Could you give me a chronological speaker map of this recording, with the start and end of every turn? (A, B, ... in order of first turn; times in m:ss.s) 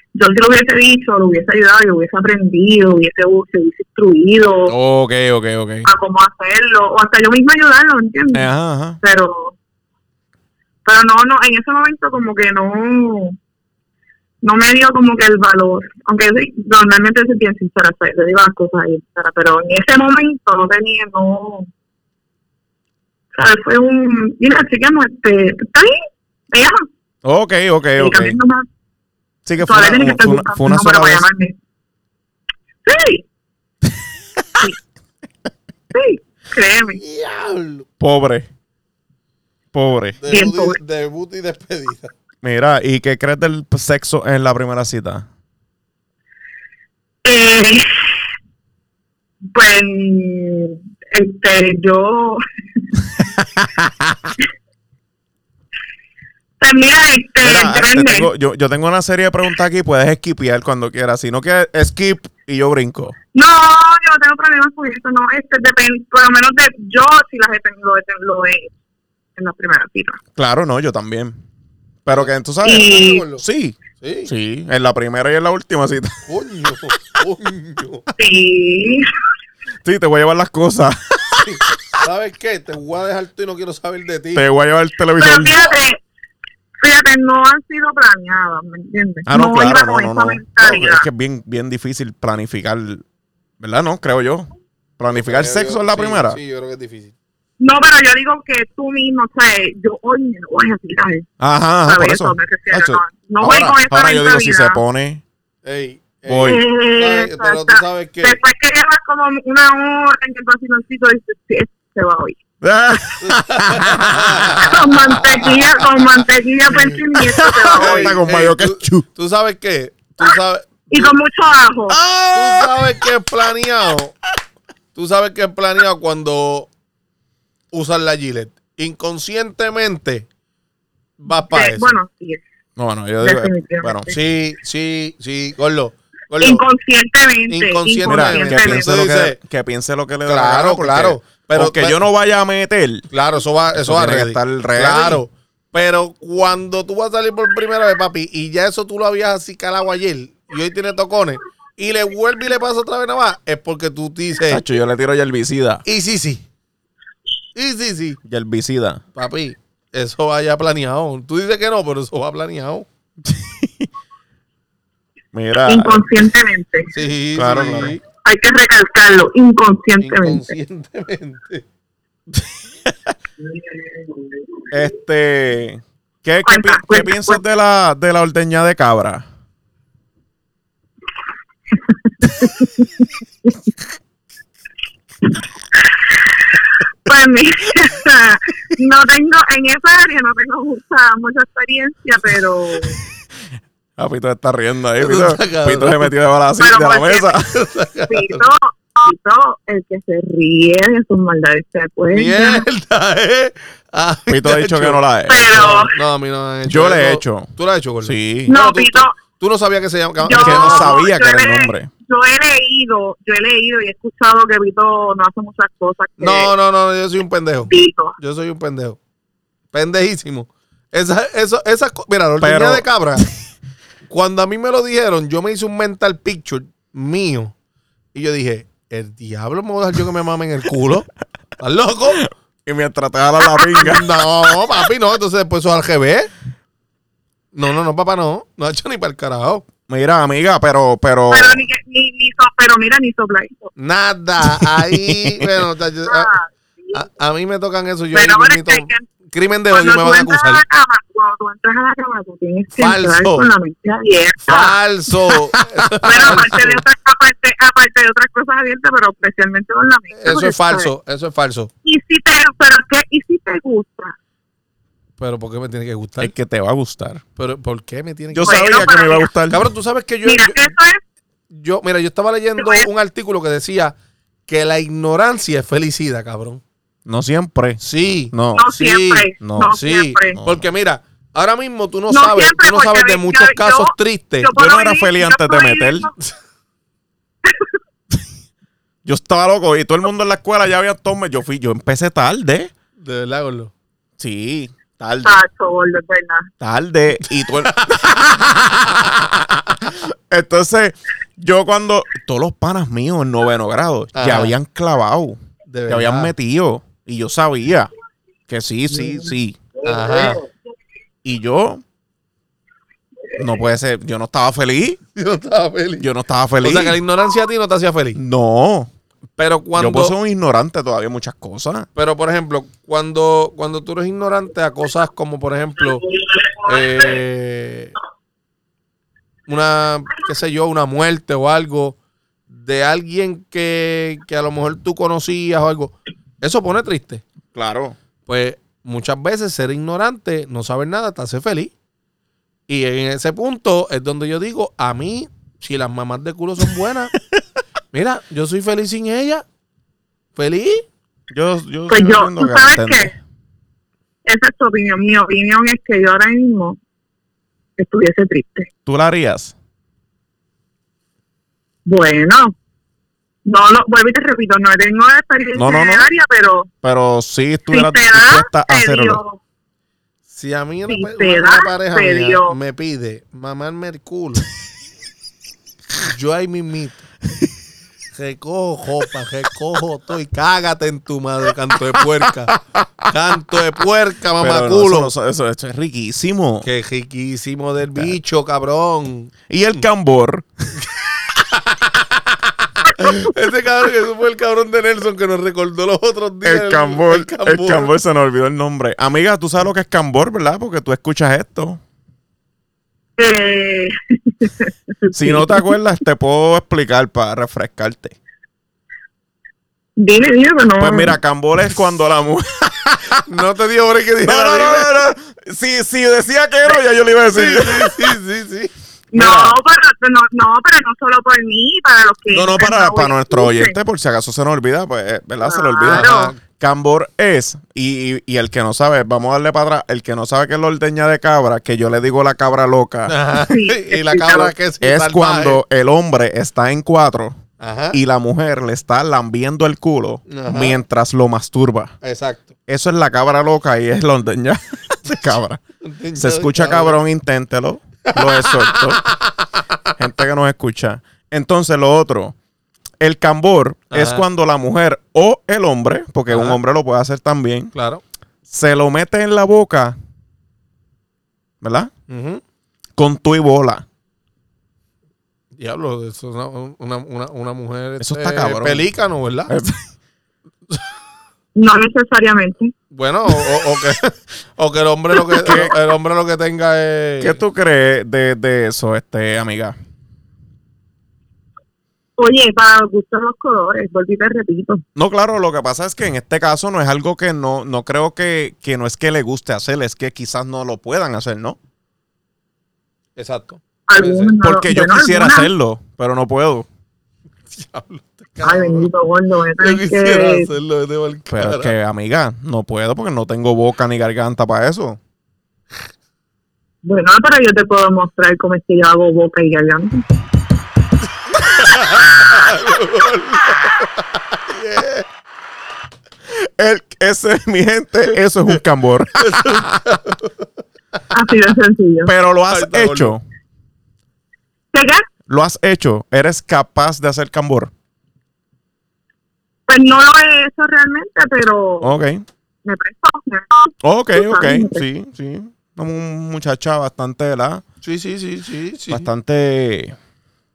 0:00.1-0:04.7 A
0:04.7-0:05.9 B
0:05.8-0:08.4 A
0:08.3-0:09.0 B
0:09.0-0:09.6 A
0:10.8-0:13.4 A
0:14.4-0:21.7 A
0:23.3-0:26.0 A
0:26.5-0:26.8 A
0:27.2-0:28.4 B
0:28.0-0:28.7 A
0:29.4-0:31.2 B
0:29.6-0:31.6 A
0:32.8-0:33.2 A
0:35.9-0:37.0 A
0:36.8-0:37.8 C
0:38.0-0:38.5 B
0:39.7-0:40.2 B
0:40.2-0:42.1 C
0:40.3-0:40.8 A
0:42.4-0:45.3 B
0:47.2-0:48.1 A
0:49.5-0:52.4 A
0:53.4-0:54.3 B
0:56.6-0:58.3 A
0:57.4-1:03.2 B
1:03.3-1:08.7 A
1:09.4-1:10.2 A
1:10.4-1:11.4 B
1:12.0-1:16.2 B
1:12.1-1:13.4 C
1:12.6-1:13.2 A
1:14.0-1:14.3 C
1:16.3-1:18.1 C
1:18.2-1:19.1 A
1:19.8-1:21.9 B
1:21.4-1:24.4 C
1:24.3-1:25.7 B
1:25.2-1:26.0 A
1:26.8-1:31.0 A
1:29.3-1:33.0 B
1:33.6-1:36.4 B
1:35.1-1:37.1 C
1:37.6-1:41.3 A
1:41.4-1:45.2 B
1:41.8-1:44.8 A
1:45.6-1:48.4 C
1:46.3-1:46.6 B
1:46.4-1:52.4 A
1:52.6-1:55.8 B
1:53.2-1:55.7 C
1:54.6-1:58.1 A
1:56.7-1:57.0 C
1:57.1-1:59.0 B
1:57.7-2:01.1 C
2:00.9-2:02.0 A
2:01.9-2:03.1 B
2:02.3-2:04.1 C
2:04.9-2:06.7 C
2:07.7-2:10.3 C
2:11.2-2:12.0 C
2:11.3-2:12.4 A
2:12.8-2:14.1 B
2:13.2-2:14.1 A
2:14.1-2:16.6 C
2:16.4-2:18.9 A
2:17.5-2:19.4 C
2:18.0-2:23.1 B
2:20.2-2:22.0 C
2:23.1-2:34.6 C
2:23.8-2:25.2 B
2:34.5-2:35.8 B
2:35.8-2:36.4 C
2:37.6-2:38.2 C
2:38.2-2:39.0 B
2:39.1-2:42.8 C
2:43.2-2:43.9 B
2:45.3-2:46.3 B
2:45.6-2:46.9 A
2:46.9-2:48.0 C
2:47.4-2:47.9 B
2:48.2-2:50.5 A
2:50.0-2:51.6 C
2:53.8-2:54.2 A
2:54.7-2:59.2 B
2:56.4-2:57.4 A
3:02.2-3:02.9 A
3:05.8-3:13.0 A
3:14.0-3:17.5 B
3:15.0-3:16.1 C
3:16.6-3:17.3 A
3:17.5-3:18.4 C
3:18.1-3:22.6 A
3:22.1-3:31.0 C
3:24.3-3:25.6 B
3:25.3-3:25.9 A
3:26.7-3:28.5 B
3:28.5-3:29.2 A
3:30.2-3:36.5 A
3:30.3-3:31.9 B
3:36.2-3:39.0 C
3:37.7-3:38.2 A
3:39.7-3:43.3 C
3:42.4-3:43.3 B
3:44.1-3:47.5 C
3:48.1-3:51.1 C
3:51.6-3:52.2 C
3:52.1-3:54.6 B
3:53.5-3:53.8 A
3:53.8-3:56.3 C
3:57.5-3:59.6 C
3:59.9-4:01.6 B
4:01.3-4:03.7 A
4:03.8-4:06.4 C
4:04.5-4:05.5 B
4:06.1-4:07.0 A
4:06.9-4:10.6 C
4:08.1-4:09.1 A
4:09.7-4:14.7 A
4:12.8-4:13.5 C
4:14.4-4:16.8 C
4:16.0-4:20.9 A
4:20.1-4:21.7 C
4:21.8-4:24.1 A
4:25.2-4:26.3 C
4:26.2-4:27.2 B
4:27.4-4:28.9 C
4:28.3-4:29.6 B
4:28.4-4:29.3 A
4:29.5-4:30.7 C
4:30.2-4:31.0 A
4:31.5-4:34.0 C
4:32.6-4:32.9 A
4:34.5-4:36.6 C
4:37.0-4:37.8 B
4:37.8-4:44.5 C
4:38.3-4:38.7 B
4:38.5-4:40.4 A
4:39.4-4:39.8 B
4:40.3-4:40.7 B
4:42.1-4:46.1 A
4:44.5-4:46.1 B
4:47.4-4:47.7 A
4:49.0-4:52.7 B
4:53.0-4:53.7 C
4:54.2-4:55.4 B
4:55.2-4:56.5 A
4:56.6-4:58.8 B
4:57.4-4:59.0 C
4:59.8-5:07.9 B
5:04.1-5:04.6 C
5:05.7-5:06.3 C
5:08.5-5:09.6 B
5:08.9-5:10.4 A
5:09.8-5:10.4 C
5:11.2-5:11.8 B
5:13.4-5:15.0 B
5:15.2-5:16.1 C
5:16.0-5:17.0 B
5:16.6-5:18.2 C
5:18.2-5:18.9 B
5:19.4-5:20.1 C
5:19.8-5:21.9 B
5:22.0-5:26.0 C
5:26.6-5:27.9 C
5:29.5-5:32.0 C
5:32.5-5:37.2 C
5:37.5-5:38.0 B
5:38.3-5:41.7 C
5:42.7-5:47.1 C
5:47.9-5:49.4 C
5:50.3-5:50.8 C
5:51.3-5:53.1 B
5:51.9-5:53.1 A
5:54.2-5:56.8 A
5:57.8-5:58.7 A
5:58.8-5:59.5 B
6:01.8-6:02.6 A
6:03.4-6:06.7 A
6:05.6-6:06.1 B
6:06.8-6:09.2 B
6:07.7-6:09.4 A
6:10.3-6:14.4 C
6:10.9-6:12.6 A
6:16.0-6:17.0 C
6:18.1-6:25.1 C
6:24.4-6:26.7 B
6:26.6-6:29.3 C
6:29.5-6:30.7 B
6:31.4-6:37.9 C
6:36.4-6:41.8 B
6:43.2-6:45.7 A
6:45.1-6:48.2 B
6:50.0-6:51.2 A
6:50.8-6:53.2 B
6:53.3-6:55.0 C
6:54.2-6:58.1 B
6:57.3-6:59.5 C
6:59.1-7:03.7 A
6:59.2-6:59.5 B
7:02.3-7:13.1 B
7:05.4-7:06.3 A
7:05.8-7:06.4 C
7:13.1-7:15.6 C
7:13.5-7:14.5 A
7:14.8-7:17.4 B
7:17.6-7:18.0 C
7:17.9-7:21.9 B
7:20.3-7:20.8 C
7:22.0-7:22.6 C
7:22.7-7:25.6 B
7:25.8-7:27.0 C
7:26.1-7:29.0 B
7:28.1-7:29.5 C
7:30.0-7:32.3 B
7:33.0-7:37.7 B
7:33.9-7:34.2 C
7:36.3-7:36.6 C
7:37.7-7:38.0 C
7:38.5-7:40.0 B
7:41.6-7:41.9 B
7:42.1-7:42.4 C
7:43.0-7:43.8 B
7:45.6-7:49.5 C
7:48.0-7:48.9 B
7:49.5-7:49.8 B
7:51.6-7:52.7 A
7:52.9-7:57.4 C
7:55.3-7:55.8 B
7:57.2-7:59.8 B
8:02.2-8:04.8 A
8:05.0-8:11.6 B
8:13.2-8:14.4 C
8:13.9-8:15.5 A
8:14.4-8:16.7 B
8:17.5-8:18.9 C
8:18.4-8:20.5 A
8:19.6-8:21.7 C
8:21.3-8:25.0 B
8:26.8-8:30.0 A
8:31.4-8:35.1 C
8:36.3-8:39.6 B
8:39.2-8:40.5 C
8:41.1-8:42.1 A
8:42.0-8:43.2 B
8:42.5-8:43.1 C
8:44.7-8:45.0 A
8:45.3-8:47.7 B
8:49.7-8:51.9 A
8:51.8-8:52.2 B
8:52.6-8:54.8 A
8:53.8-8:57.6 B
8:57.8-8:59.1 C
8:58.9-9:00.0 B